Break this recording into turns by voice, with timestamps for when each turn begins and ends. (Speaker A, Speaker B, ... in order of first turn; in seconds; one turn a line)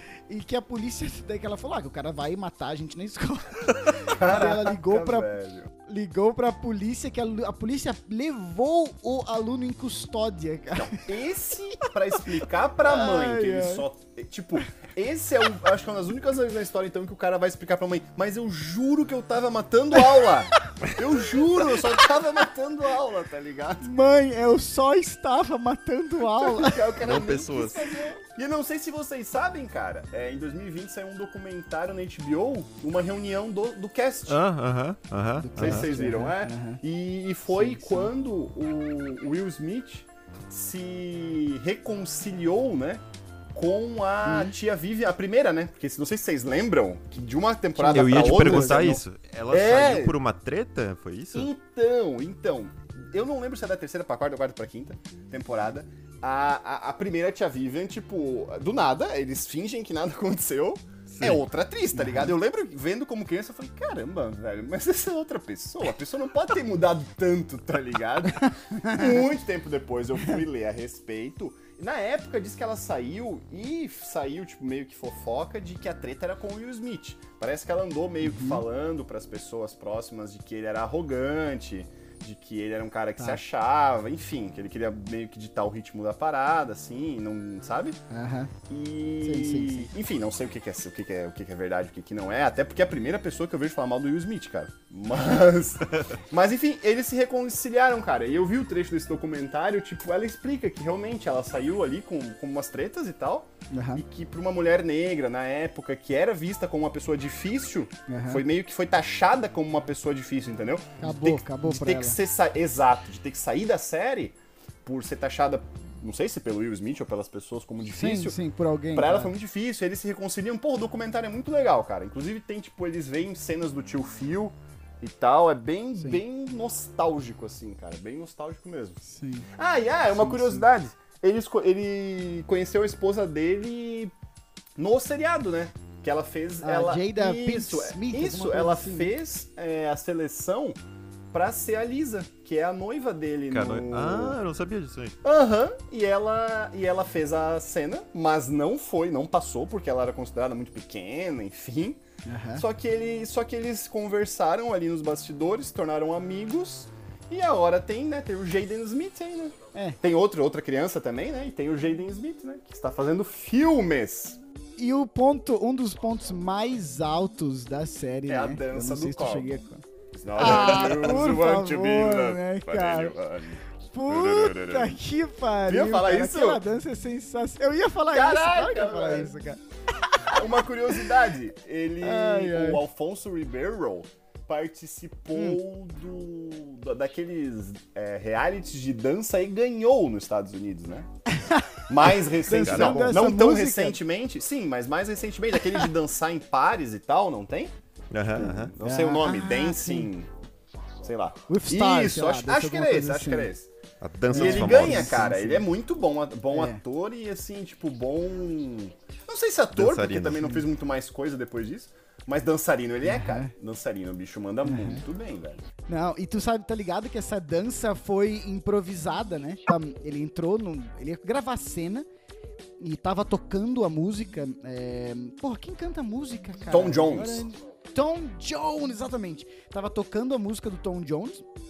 Speaker A: 0.3-11.1
Speaker B: 4.1-5.7
Speaker B: 10.7-23.9
Speaker A: 12.8-13.8
Speaker A: 23.8-26.9
Speaker B: 26.2-34.4
Speaker C: 27.0-27.9
Speaker C: 34.3-35.9
Speaker A: 35.4-36.8
Speaker B: 35.6-43.0
Speaker A: 37.5-38.1
Speaker B: 43.5-50.1
Speaker A: 44.2-44.5
Speaker A: 47.8-48.9
Speaker C: 47.8-51.5
Speaker B: 51.3-88.0
Speaker C: 61.1-61.4
Speaker A: 61.9-62.3
Speaker A: 68.6-69.2
Speaker A: 78.2-78.6
Speaker A: 88.1-88.5
Speaker B: 88.7-118.3
Speaker A: 89.2-89.9
Speaker A: 103.7-104.0
Speaker A: 108.1-108.4
Speaker A: 111.0-112.2
Speaker A: 117.8-119.3
Speaker B: 118.9-129.0
Speaker A: 129.0-129.5
Speaker B: 129.5-134.1
Speaker A: 130.1-130.6
Speaker B: 134.8-140.8
Speaker A: 136.6-139.1
Speaker B: 141.3-144.4
Speaker C: 143.5-145.2
Speaker B: 145.2-152.0
Speaker A: 152.2-152.6
Speaker B: 152.5-164.4
Speaker A: 159.7-160.0
Speaker A: 164.8-173.2
Speaker B: 168.3-169.6
Speaker B: 170.1-175.0
Speaker A: 173.9-180.4
Speaker B: 175.7-176.6
Speaker B: 178.1-179.3
Speaker B: 180.3-191.1
Speaker A: 182.0-182.8
Speaker A: 191.3-194.0
Speaker B: 191.9-197.7
Speaker C: 192.6-193.2
Speaker C: 198.1-198.7
Speaker B: 198.3-200.3
Speaker A: 198.8-200.1
Speaker B: 201.0-203.7
Speaker A: 201.5-203.5
Speaker C: 204.0-205.2
Speaker A: 204.3-205.7
Speaker B: 204.3-215.6
Speaker A: 206.5-206.8
Speaker C: 209.7-210.5
Speaker A: 213.0-213.5
Speaker A: 214.7-215.0
Speaker A: 215.9-222.1
Speaker A: 222.8-231.4
Speaker B: 226.7-227.4